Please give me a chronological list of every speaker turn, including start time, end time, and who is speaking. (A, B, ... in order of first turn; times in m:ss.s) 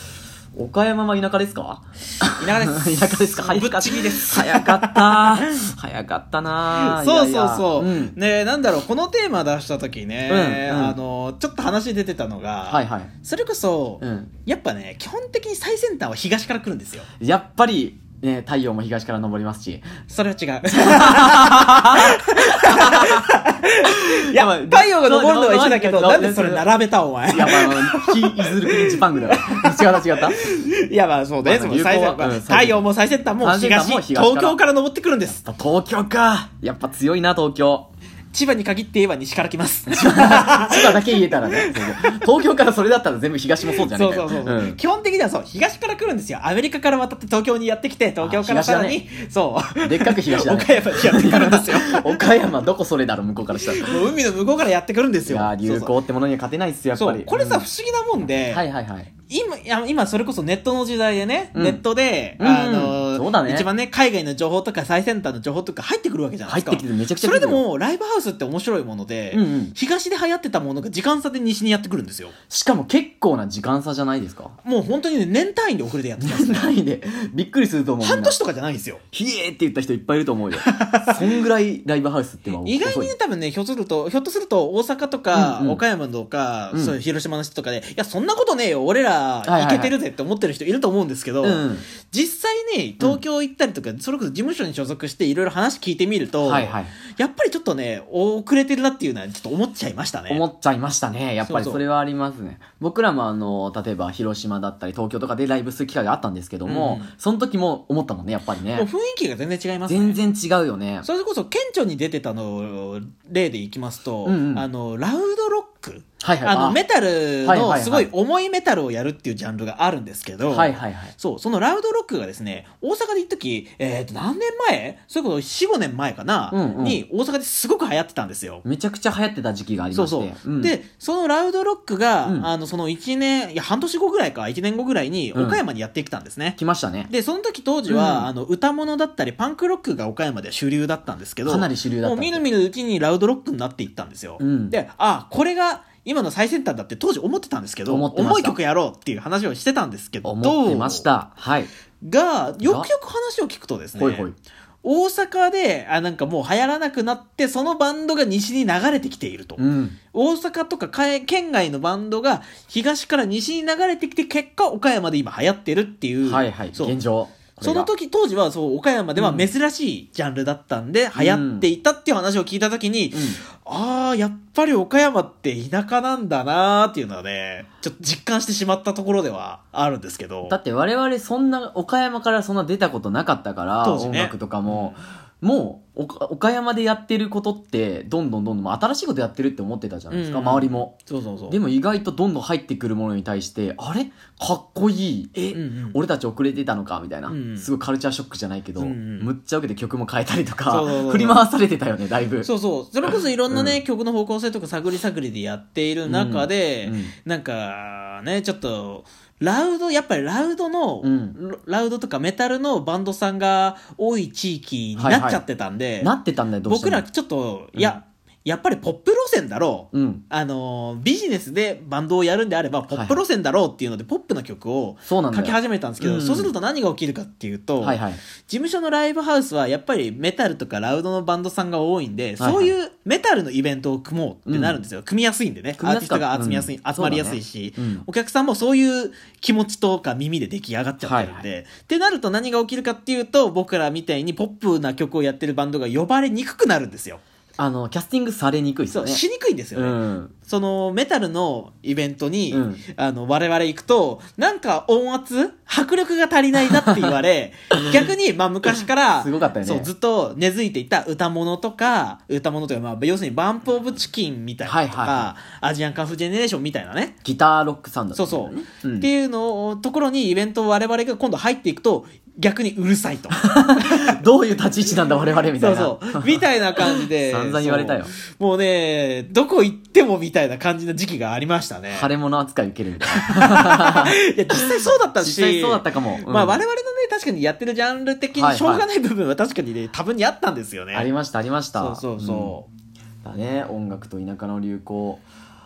0:00.6-0:08.2 A
0:02.4-0:05.6 B
0:06.7-0:17.1 B
0:10.3-0:11.0 A
0:12.7-0:13.1 A
0:14.0-0:14.3 A
0:17.2-0:19.9 A
0:20.1-0:35.4 B
0:20.7-0:23.3 A
0:23.8-0:26.7 A
0:27.3-0:30.6 A
0:31.4-0:32.9 A
0:33.4-0:34.6 A
0:35.3-0:37.9 A
0:38.3-0:42.2 B
0:39.9-0:44.8 A
0:43.7-0:52.2 B
0:48.2-0:49.0 A
0:49.8-0:54.1 A
0:53.6-0:55.9 B
0:55.3-0:57.6 A
0:57.0-0:58.6 B
0:58.3-0:59.1 A
0:59.3-1:12.3 B
1:01.6-1:01.8 A
1:02.4-1:03.7 A
1:06.5-1:07.6 A
1:09.3-1:09.8 A
1:12.5-1:14.6 A
1:14.6-1:16.8 B
1:16.2-1:18.4 A
1:18.0-1:19.0 B
1:19.1-1:23.1 A
1:20.6-1:21.4 B
1:22.5-1:40.4 B
1:25.3-1:25.8 A
1:29.4-1:30.0 A
1:31.4-1:31.9 A
1:36.4-1:36.9 A
1:40.3-1:48.9 A
1:41.4-1:41.8 B
1:46.6-1:47.1 B
1:48.7-1:50.2 B
1:49.9-1:51.1 A
1:51.0-2:08.6 B
1:54.2-1:54.6 A
1:56.2-1:56.8 A
1:57.4-1:58.1 A
2:00.5-2:01.1 A
2:06.5-2:07.0 A
2:08.6-2:10.8 A
2:09.9-2:16.6 B
2:12.2-2:12.5 A
2:15.3-2:15.6 A
2:16.6-2:17.1 A
2:17.1-2:31.1 B
2:17.9-2:18.3 A
2:21.5-2:22.4 A
2:24.4-2:24.8 A
2:27.9-2:28.6 A
2:30.2-2:31.7 A
2:32.0-2:34.3 B
2:32.6-2:32.9 A
2:34.0-2:34.4 A
2:34.8-2:47.0 B
2:39.6-2:40.0 A
2:46.2-2:47.9 A
2:47.6-3:00.6 B
2:49.2-2:49.5 A
2:51.2-2:51.7 A
2:53.1-2:53.4 A
3:00.5-3:10.9 A
3:03.8-3:05.0 B
3:10.1-3:11.6 B
3:11.5-3:22.5 A
3:15.5-3:16.0 B
3:17.3-3:17.7 B
3:18.8-3:19.3 B
3:20.7-3:21.4 B
3:22.4-3:36.1 B
3:23.5-3:23.8 A
3:26.1-3:27.1 A
3:31.0-3:31.4 A
3:35.0-3:35.4 A
3:36.0-3:37.0 A
3:36.7-4:07.2 B
3:39.9-3:40.2 A
3:42.9-3:43.2 A
3:45.1-3:46.5 A
3:47.8-3:48.2 A
3:52.4-3:52.7 A
3:54.5-3:54.8 A
3:55.8-3:58.0 A
4:01.0-4:01.4 A
4:07.6-4:09.2 A
4:08.9-4:27.2 B
4:09.8-4:10.3 A
4:12.5-4:12.8 A
4:19.2-4:19.9 A
4:24.6-4:25.3 A
4:27.2-4:29.1 A
4:28.1-4:34.2 B
4:33.4-4:38.1 A
4:35.6-4:42.1 B
4:41.9-4:46.6 A
4:43.1-4:51.1 B
4:48.4-4:48.9 A
4:50.9-4:52.6 A
4:51.8-4:52.7 B
4:53.2-4:55.2 A